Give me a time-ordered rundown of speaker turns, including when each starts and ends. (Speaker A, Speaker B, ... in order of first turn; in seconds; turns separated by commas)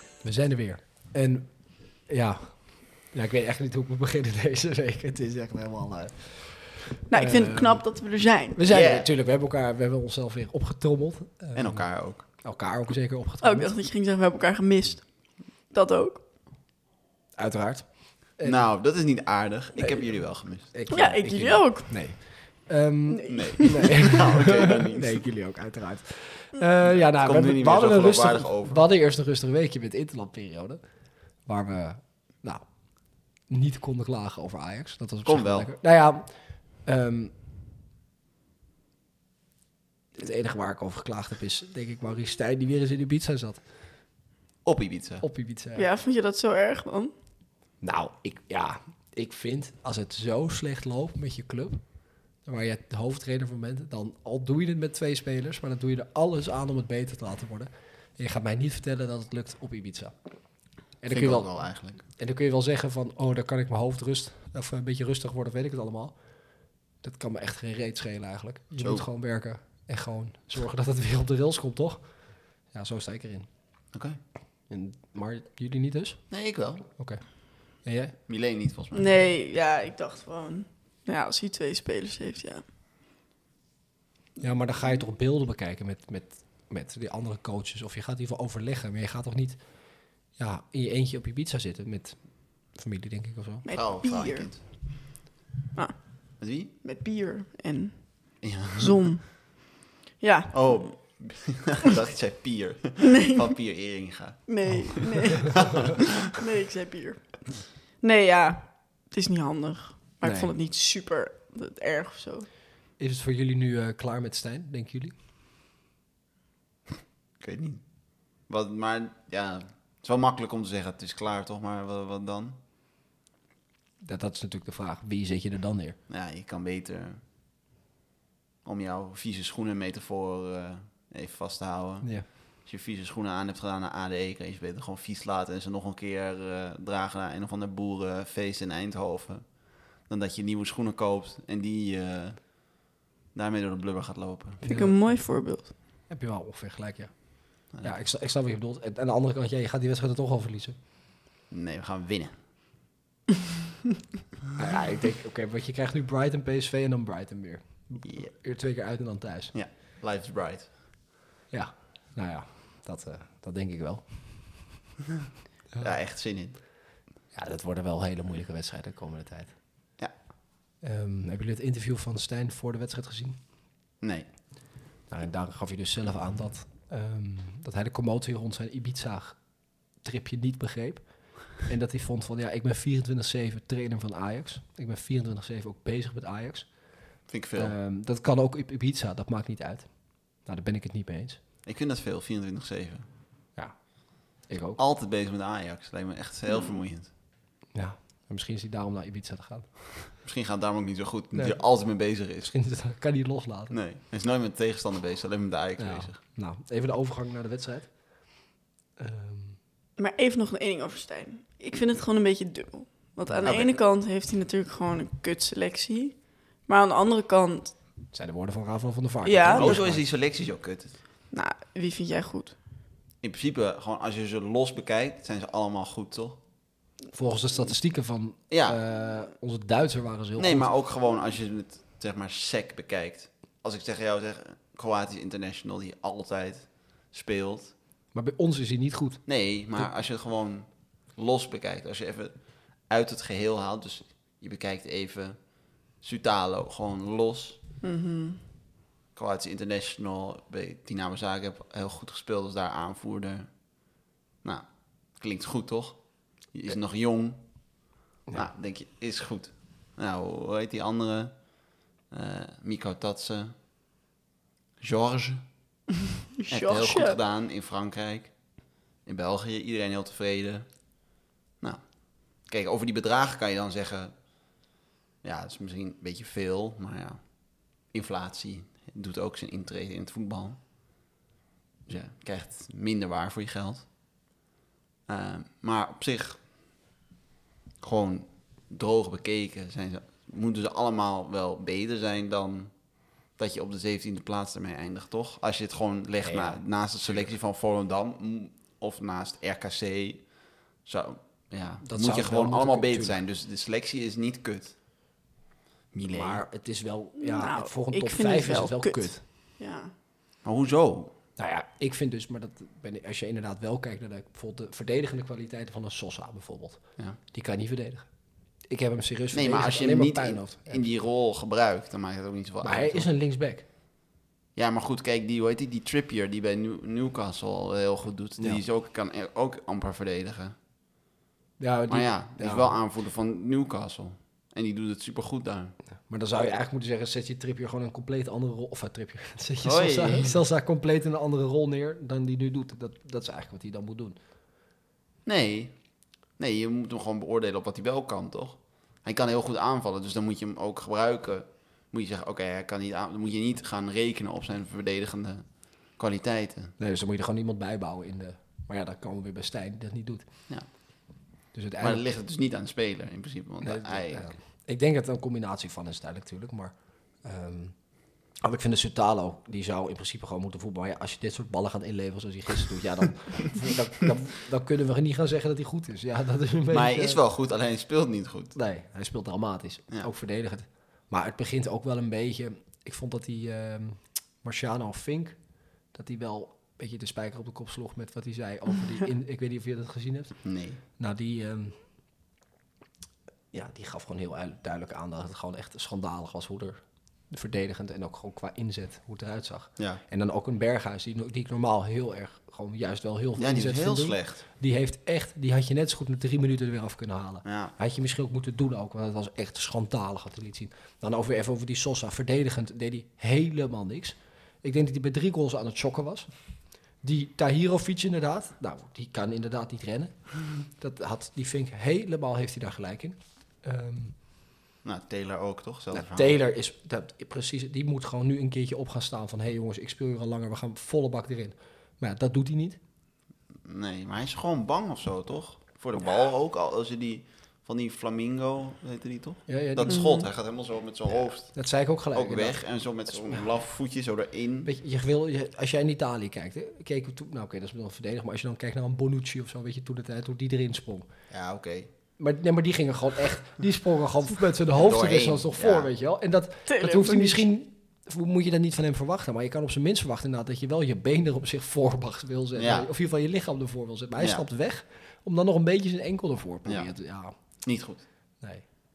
Speaker A: 0.2-7.8, Speaker B: 7.1-8.6, Speaker A: 8.5-13.7, Speaker C: 8.7-9.1, Speaker C: 11.5-12.2, Speaker B: 13.4-16.2, Speaker A: 17.4-18.7, Speaker C: 18.4-20.7, Speaker A: 20.6-30.8, Speaker B: 20.9-22.2, Speaker B: 23.1-24.0, Speaker C: 23.3-25.2, Speaker C: 26.8-28.8, Speaker A: 31.4-37.3, Speaker C: 35.2-35.7, Speaker A: 40.1-43.6, Speaker C: 44.6-45.2, Speaker A: 45.2-45.9, Speaker B: 45.8-47.1, Speaker A: 47.8-51.8, Speaker A: 52.4-60.1, Speaker A: 61.0-66.1, Speaker C: 61.1-62.0, Speaker A: 67.0-73.5, Speaker C: 68.8-69.0, Speaker C: 73.9-74.2, Speaker A: 74.7-76.2, Speaker C: 76.3-76.8, Speaker A: 76.9-78.1, Speaker C: 78.3-79.0, Speaker B: 78.9-82.6, Speaker A: 84.4-93.7, Speaker B: 93.6-94.7, Speaker C: 93.7-94.6, Speaker B: 95.7-96.2, Speaker C: 96.4-96.7, Speaker B: 96.7-99.5, Speaker C: 98.4-99.1, Speaker B: 100.2-101.0, Speaker C: 100.5-106.0, Speaker B: 103.0-103.5, Speaker B: 104.5-112.5, Speaker A: 110.2-110.5, Speaker A: 113.0-115.1, Speaker C: 117.4-117.8, Speaker C: 118.4-122.5, Speaker A: 124.0-126.0, Speaker C: 126.1-127.2, Speaker C: 128.6-142.8, Speaker C: 143.3-144.6, Speaker A: 144.6-145.1, Speaker B: 144.7-145.7, Speaker A: 146.1-150.7, Speaker C: 151.5-152.3, Speaker A: 154.5-159.5, Speaker C: 158.0-158.3, Speaker C: 159.5-160.7, Speaker A: 161.5-164.6, Speaker C: 165.8-166.6, Speaker A: 167.3-169.6, Speaker A: 170.8-173.4, Speaker C: 174.0-174.3, Speaker A: 175.1-186.8, Speaker C: 187.3-187.7, Speaker A: 187.5-191.4, Speaker C: 191.6-193.1, Speaker A: 193.6-194.8, Speaker C: 194.8-197.1, Speaker A: 197.7-199.7, Speaker C: 200.2-202.5, Speaker A: 201.3-201.6, Speaker A: 202.4-203.8, Speaker C: 203.7-206.2, Speaker A: 205.8-208.4, Speaker A: 209.0-209.6, Speaker B: 210.0-217.8, Speaker A: 213.3-213.5, Speaker C: 213.4-213.8, Speaker A: 218.1-220.0, Speaker B: 219.2-219.8, Speaker C: 219.5-220.9, Speaker B: 221.3-222.6, Speaker C: 223.2-226.4, Speaker A: 227.1-230.7, Speaker C: 228.5-228.8, Speaker C: 230.3-237.7, Speaker A: 238.1-239.2, Speaker C: 239.2-247.6, Speaker B: 247.8-248.4, Speaker C: 249.1-253.8, Speaker C: 254.4-257.4, Speaker C: 258.3-263.5, Speaker C: 264.8-265.4, Speaker B: 266.4-267.2, Speaker C: 266.5-268.3, Speaker C: 269.0-271.0, Speaker C: 271.6-274.2, Speaker C: 275.2-280.6, Speaker C: 281.9-283.9, Speaker C: 285.1-286.4, Speaker C: 287.8-292.8, Speaker C: 293.3-304.8, Speaker A: 296.2-296.6, Speaker A: 301.8-303.2, Speaker C: 305.9-306.4, Speaker A: 306.1-309.2, Speaker B: 307.2-309.9, Speaker C: 310.4-311.1, Speaker A: 311.4-318.1, Speaker A: 318.7-320.9, Speaker C: 319.3-323.1, Speaker A: 322.6-323.6, Speaker C: 324.5-330.5, Speaker A: 331.6-332.8, Speaker C: 331.9-335.7, Speaker A: 336.1-344.1, Speaker C: 339.6-340.4, Speaker C: 345.2-345.8, Speaker C: 346.4-356.7, Speaker A: 356.8-360.2, Speaker A: 361.5-362.0, Speaker C: 361.8-364.3, Speaker A: 363.6-377.2, Speaker C: 376.7-378.5, Speaker A: 378.5-385.4, Speaker A: 385.9-390.4, Speaker C: 390.4-390.8, Speaker A: 391.0-391.8, Speaker A: 393.5-424.1, Speaker C: 403.4-404.4, Speaker C: 407.4-407.7, Speaker C: 424.8-426.3, Speaker A: 425.9-432.8, Speaker C: 433.6-441.6, Speaker A: 439.5-440.1, Speaker B: 439.9-440.3, Speaker A: 441.5-442.6, Speaker C: 442.1-444.7, Speaker A: 444.6-451.1, Speaker C: 451.3-451.9, Speaker A: 452.2-467.3, Speaker C: 454.7-455.9, Speaker B: 456.7-457.4, Speaker C: 462.6-462.9, Speaker C: 464.2-464.4, Speaker C: 467.6-468.0